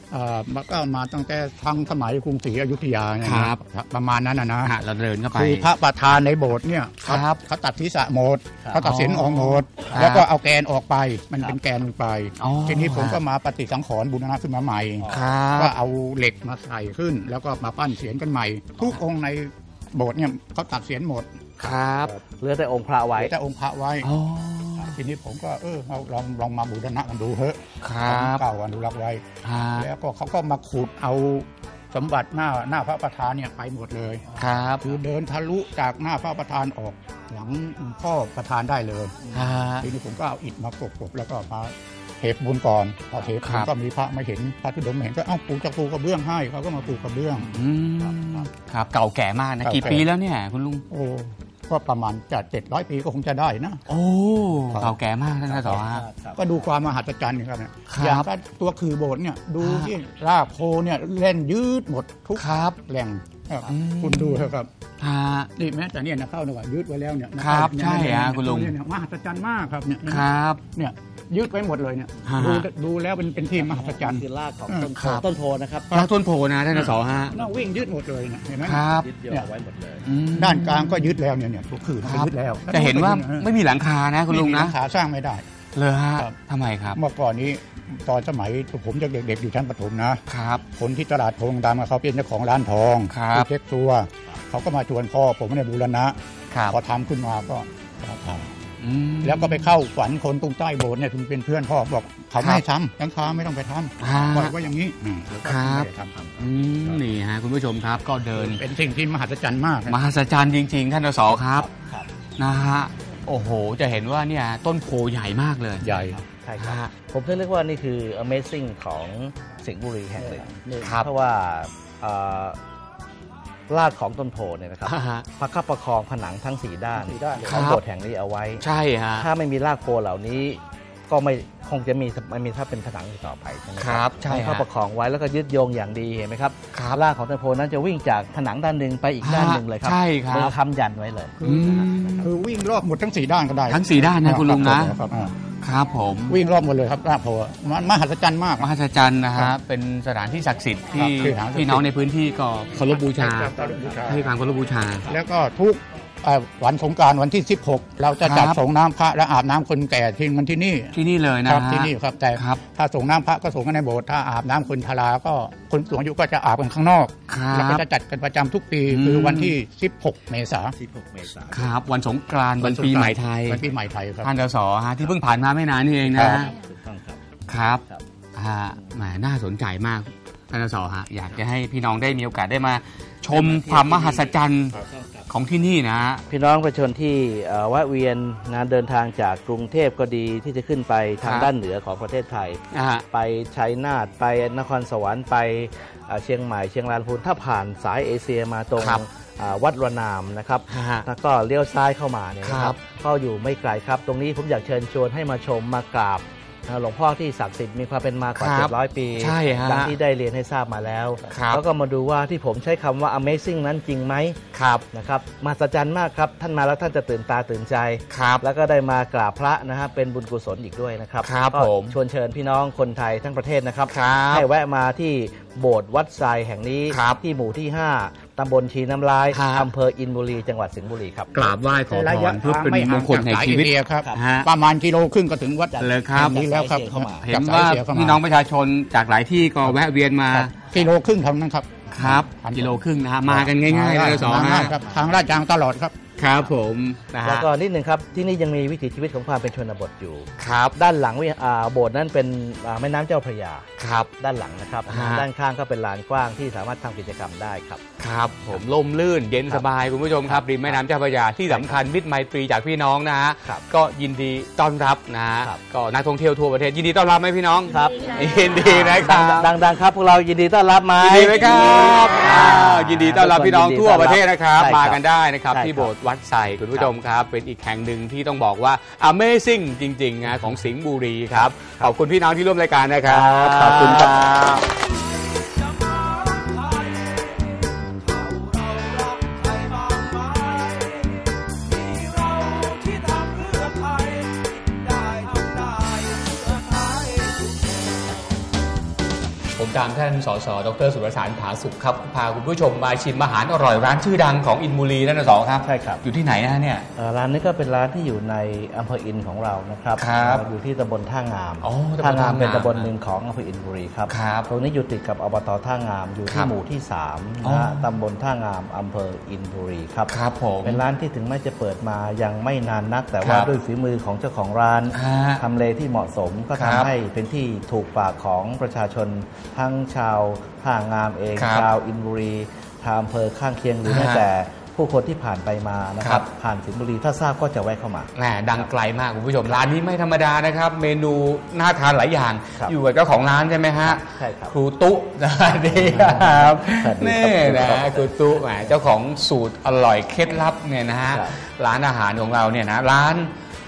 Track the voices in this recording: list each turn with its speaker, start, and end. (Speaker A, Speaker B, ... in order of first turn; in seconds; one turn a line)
Speaker A: 0.1-4.7
Speaker B: 3.2-3.6
Speaker B: 4.6-5.7
Speaker A: 5.3-21.4
Speaker B: 7.0-7.4
Speaker B: 8.8-10.2
Speaker B: 12.4-13.2
Speaker C: 15.0-15.3
Speaker B: 15.1-15.7
Speaker B: 21.6-22.2
Speaker C: 22.4-23.3
Speaker A: 23.2-24.1
Speaker B: 24.0-25.0
Speaker A: 24.9-47.6
Speaker B: 27.8-28.4
Speaker B: 29.4-29.9
Speaker B: 34.4-34.9
Speaker B: 39.3-39.9
Speaker B: 43.4-43.7
Speaker B: 47.4-50.8
Speaker A: 49.6-50.0
Speaker A: 50.9-53.8
Speaker B: 53.9-56.0
Speaker A: 54.7-54.9
Speaker C: 55.5-56.7
Speaker A: 56.4-64.7
Speaker B: 57.9-58.3
Speaker B: 59.6-59.9
Speaker B: 62.4-62.8
Speaker B: 63.6-65.5
Speaker A: 65.5-74.9
Speaker B: 67.4-68.7
Speaker B: 70.0-70.6
Speaker B: 72.2-72.7
Speaker C: 73.5-75.9
Speaker B: 75.0-75.2
Speaker B: 75.9-77.4
Speaker A: 76.9-79.5
Speaker B: 78.6-79.1
Speaker C: 79.0-80.0
Speaker B: 80.0-81.1
Speaker A: 80.3-83.5
Speaker B: 82.0-84.7
Speaker A: 84.3-85.4
Speaker B: 85.7-87.0
Speaker A: 86.9-96.2
Speaker B: 90.3-90.6
Speaker B: 93.1-93.5
Speaker B: 96.5-96.8
Speaker A: 96.7-98.5
Speaker B: 98.8-99.7
Speaker A: 99.2-106.1
Speaker B: 102.4-102.6
Speaker B: 104.0-104.5
Speaker C: 105.3-107.0
Speaker B: 105.4-108.6
Speaker A: 108.3-110.0
Speaker B: 109.9-111.7
Speaker C: 111.3-112.1
Speaker B: 112.4-115.9
Speaker A: 115.8-116.2
Speaker C: 115.9-122.6
Speaker B: 116.6-116.9
Speaker A: 120.2-121.0
Speaker B: 120.8-121.1
Speaker C: 123.7-142.1
Speaker B: 124.9-125.2
Speaker A: 127.0-127.7
Speaker B: 127.5-127.8
Speaker B: 128.6-129.2
Speaker B: 133.8-134.6
Speaker B: 136.7-137.0
Speaker B: 139.2-140.5
Speaker B: 141.4-142.3
Speaker A: 141.4-145.4
Speaker B: 143.7-145.0
Speaker B: 145.6-146.4
Speaker A: 146.3-148.7
Speaker B: 148.6-153.5
Speaker A: 150.9-151.9
Speaker C: 151.0-151.3
Speaker A: 153.0-154.3
Speaker C: 153.6-153.9
Speaker B: 154.1-155.1
Speaker A: 155.1-170.7
Speaker B: 158.2-158.6
Speaker B: 160.9-162.6
Speaker B: 167.3-167.8
Speaker B: 168.9-169.5
Speaker C: 170.7-171.7
Speaker B: 171.5-173.6
Speaker A: 172.6-174.3
Speaker B: 174.2-176.5
Speaker A: 176.1-176.5
Speaker C: 176.1-177.2
Speaker B: 177.5-177.8
Speaker B: 178.3-184.8
Speaker C: 178.7-179.0
Speaker C: 183.3-185.3
Speaker B: 185.3-186.2
Speaker C: 186.3-214.4
Speaker B: 191.2-191.5
Speaker B: 192.7-193.0
Speaker B: 198.8-199.0
Speaker B: 200.7-201.0
Speaker B: 202.4-202.8
Speaker B: 208.4-209.9
Speaker B: 211.3-211.6
Speaker B: 214.5-214.8
Speaker C: 214.9-231.4
Speaker B: 218.1-218.4
Speaker B: 221.2-221.9
Speaker B: 223.9-224.4
Speaker B: 226.9-227.2
Speaker B: 229.3-229.7
Speaker B: 231.3-234.5
Speaker A: 231.9-238.2
Speaker C: 235.7-237.3
Speaker B: 235.8-236.4
Speaker B: 237.2-240.7
Speaker A: 240.3-246.0
Speaker B: 241.9-244.7
Speaker C: 244.8-245.1
Speaker B: 246.2-247.5
Speaker C: 247.2-253.7
Speaker B: 250.4-250.7
Speaker B: 253.8-254.1
Speaker C: 254.2-257.8
Speaker B: 254.9-255.2
Speaker B: 258.0-269.5
Speaker C: 260.2-260.8
Speaker C: 261.5-261.8
Speaker C: 267.7-275.9
Speaker B: 271.0-284.4
Speaker C: 281.3-281.9
Speaker C: 283.0-284.6
Speaker B: 286.0-287.2
Speaker B: 288.2-290.9
Speaker B: 291.7-294.2
Speaker B: 295.2-297.1
Speaker B: 299.5-306.9
Speaker C: 305.6-306.0
Speaker C: 306.9-338.7
Speaker B: 310.0-310.4
Speaker B: 311.6-312.9
Speaker B: 314.1-314.5
Speaker B: 317.4-317.8
Speaker B: 320.1-320.8
Speaker B: 323.2-323.5
Speaker B: 324.9-325.4
Speaker B: 326.5-326.9
Speaker B: 331.4-331.7
Speaker B: 333.8-334.2
Speaker B: 338.1-353.3
Speaker C: 343.8-344.5
Speaker C: 345.4-348.8
Speaker C: 351.1-351.4